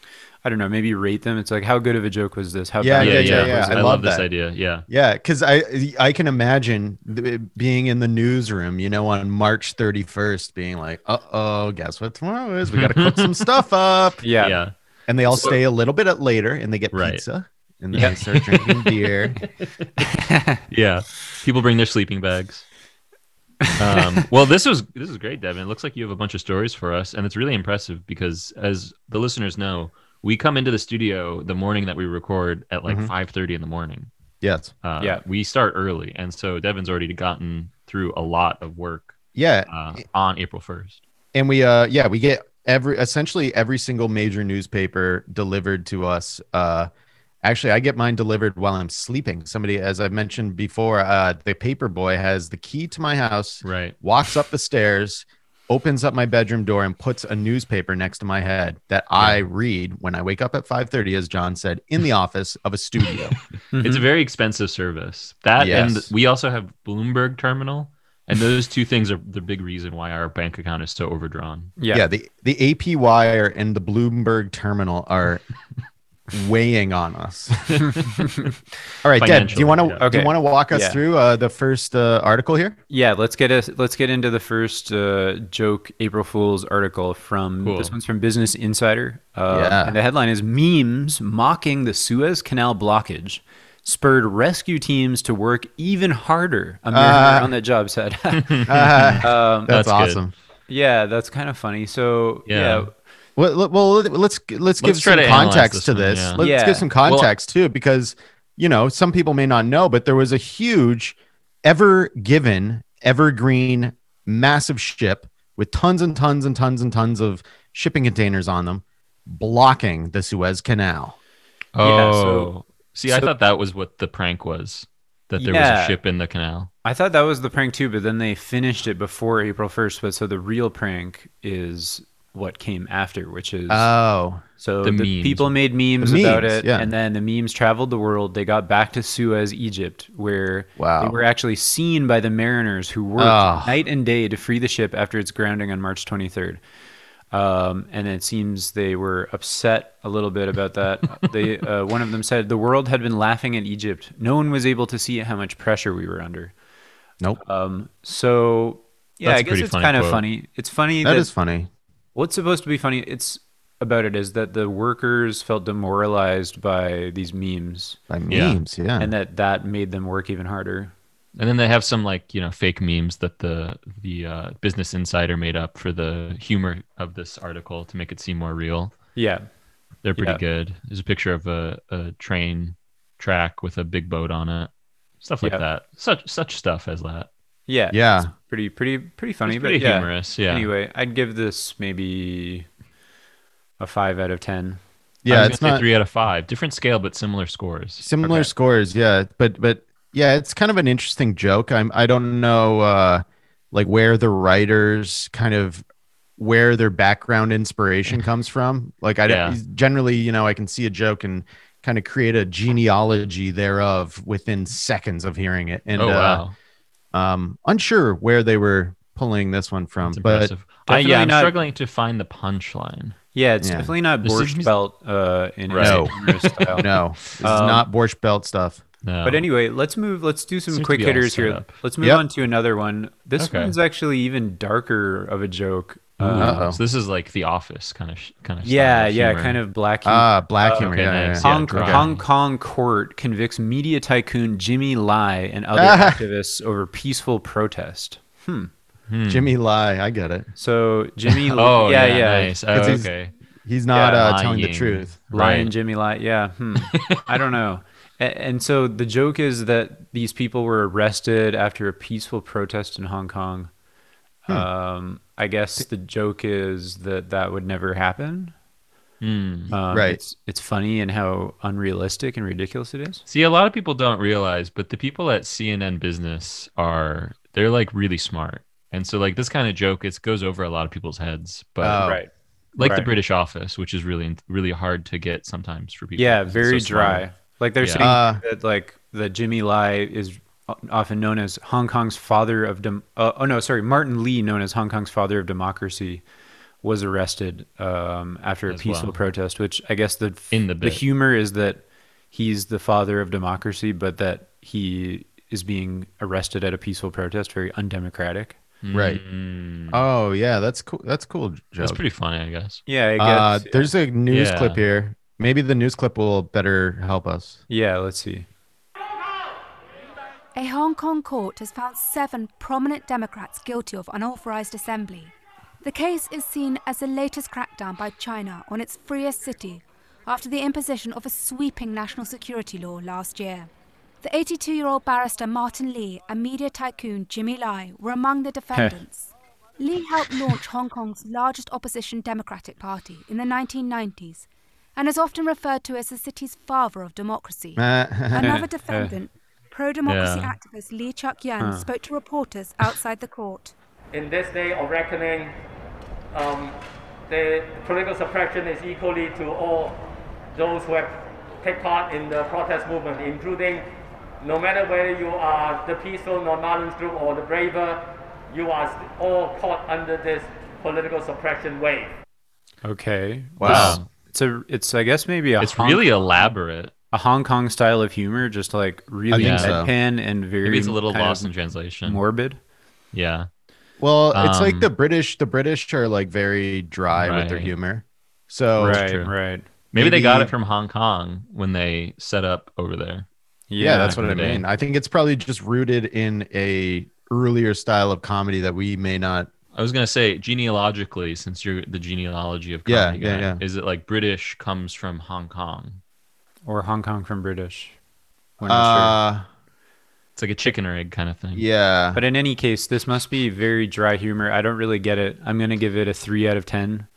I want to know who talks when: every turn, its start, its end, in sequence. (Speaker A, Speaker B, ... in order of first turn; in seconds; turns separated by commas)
Speaker A: 0.4-3.9, Speaker B: 2.8-4.3, Speaker C: 3.0-4.9, Speaker B: 4.9-14.2, Speaker C: 12.7-13.5, Speaker A: 14.2-14.6, Speaker C: 14.4-14.7, Speaker B: 15.1-19.4, Speaker C: 15.3-15.6, Speaker C: 16.9-17.2, Speaker C: 17.9-19.5, Speaker A: 20.1-20.6, Speaker C: 20.7-22.7, Speaker A: 23.6-24.2, Speaker C: 23.8-34.1, Speaker B: 32.9-33.1, Speaker B: 34.4-34.7, Speaker C: 34.8-39.2, Speaker B: 39.4-39.7, Speaker C: 39.7-41.0, Speaker B: 41.3-46.9, Speaker B: 47.4-63.4, Speaker C: 53.6-54.0, Speaker A: 63.7-64.0, Speaker C: 63.8-71.7, Speaker B: 65.6-66.1, Speaker A: 71.8-72.1, Speaker B: 71.9-75.4, Speaker B: 76.3-77.8, Speaker B: 79.0-82.8, Speaker C: 79.2-80.0, Speaker A: 80.0-81.0, Speaker A: 82.9-98.7, Speaker C: 87.6-87.9, Speaker B: 89.5-90.0, Speaker B: 96.9-97.5, Speaker C: 98.4-100.2, Speaker B: 98.7-100.3, Speaker A: 99.2-99.7, Speaker A: 100.7-102.9, Speaker C: 102.5-102.9, Speaker B: 103.4-121.2, Speaker C: 104.8-106.4, Speaker A: 106.4-106.9, Speaker C: 121.8-126.7, Speaker A: 121.8-122.5, Speaker A: 125.4-126.0, Speaker A: 126.8-133.9, Speaker B: 133.7-134.4, Speaker A: 134.6-146.6, Speaker C: 134.8-135.5, Speaker B: 136.0-136.9, Speaker B: 140.8-141.2, Speaker B: 143.2-143.8, Speaker A: 147.3-156.5, Speaker A: 157.4-161.3, Speaker C: 159.2-160.2, Speaker B: 161.0-161.7, Speaker A: 162.2-168.0, Speaker B: 168.1-169.1, Speaker C: 168.3-168.6, Speaker A: 169.0-170.9, Speaker C: 171.4-179.0, Speaker A: 179.2-179.4, Speaker C: 180.0-184.7, Speaker C: 185.2-187.3, Speaker A: 187.7-192.7, Speaker B: 187.9-188.3, Speaker C: 189.5-190.7, Speaker A: 193.8-194.8, Speaker B: 195.2-195.8, Speaker C: 195.3-198.2, Speaker B: 198.0-205.8, Speaker B: 206.4-216.4, Speaker C: 209.2-209.6, Speaker C: 216.0-216.5, Speaker B: 217.1-220.5, Speaker C: 220.0-223.2, Speaker A: 220.9-221.5, Speaker A: 223.3-226.8, Speaker B: 223.6-223.9, Speaker C: 224.2-224.7, Speaker C: 225.7-226.8, Speaker B: 225.8-226.1, Speaker B: 226.8-228.8, Speaker A: 227.4-227.8, Speaker C: 229.0-229.5, Speaker A: 229.2-236.7, Speaker C: 230.7-231.7, Speaker C: 233.4-233.8, Speaker C: 236.2-239.6, Speaker B: 236.4-236.8, Speaker A: 238.6-240.9, Speaker B: 240.1-242.1, Speaker C: 240.8-242.2, Speaker A: 241.4-248.7, Speaker B: 245.8-246.2, Speaker C: 249.1-249.5, Speaker B: 249.3-250.5, Speaker A: 250.6-252.6, Speaker C: 251.6-253.3, Speaker B: 252.7-253.1, Speaker B: 253.6-255.2, Speaker A: 253.9-254.2, Speaker C: 254.0-255.7, Speaker A: 255.3-263.7, Speaker C: 256.9-257.4, Speaker A: 264.5-268.5, Speaker C: 269.2-269.7, Speaker A: 269.7-273.2, Speaker B: 269.9-270.2, Speaker C: 273.3-282.0, Speaker B: 281.8-282.2, Speaker A: 282.0-283.1, Speaker C: 282.8-287.2, Speaker A: 286.2-296.2, Speaker C: 287.8-288.1, Speaker B: 288.0-288.4, Speaker A: 296.8-308.6, Speaker C: 298.7-299.2, Speaker C: 300.5-301.0, Speaker C: 308.8-310.0, Speaker B: 308.9-309.2, Speaker B: 309.9-312.0, Speaker C: 311.8-312.8, Speaker A: 312.9-313.9, Speaker B: 313.2-317.6, Speaker C: 314.3-314.8, Speaker A: 317.7-318.5, Speaker D: 320.6-333.7, Speaker D: 334.2-353.7, Speaker A: 340.3-340.5, Speaker B: 347.8-348.6, Speaker A: 348.4-349.1, Speaker C: 350.1-350.6, Speaker A: 351.6-351.9, Speaker E: 354.1-355.5, Speaker E: 356.3-356.8, Speaker E: 357.3-360.0, Speaker E: 360.5-363.9, Speaker E: 364.4-372.1, Speaker A: 372.8-376.1, Speaker B: 373.6-374.0, Speaker C: 373.6-374.1, Speaker C: 375.6-376.9, Speaker A: 377.1-381.5, Speaker B: 379.3-379.9, Speaker C: 379.3-379.8, Speaker C: 380.6-382.2, Speaker A: 382.0-382.6, Speaker C: 383.1-383.5, Speaker B: 384.0-389.0, Speaker C: 384.3-384.9, Speaker C: 387.1-387.7, Speaker C: 388.8-389.3, Speaker A: 388.8-389.7, Speaker C: 389.9-393.3, Speaker B: 390.0-390.5, Speaker A: 393.7-394.2, Speaker B: 393.8-399.5, Speaker C: 394.0-394.6, Speaker C: 399.7-406.0, Speaker B: 402.9-403.6, Speaker A: 406.7-408.0, Speaker A: 408.6-409.2, Speaker B: 408.6-409.4, Speaker C: 410.4-411.6, Speaker B: 411.6-412.2, Speaker A: 412.1-417.1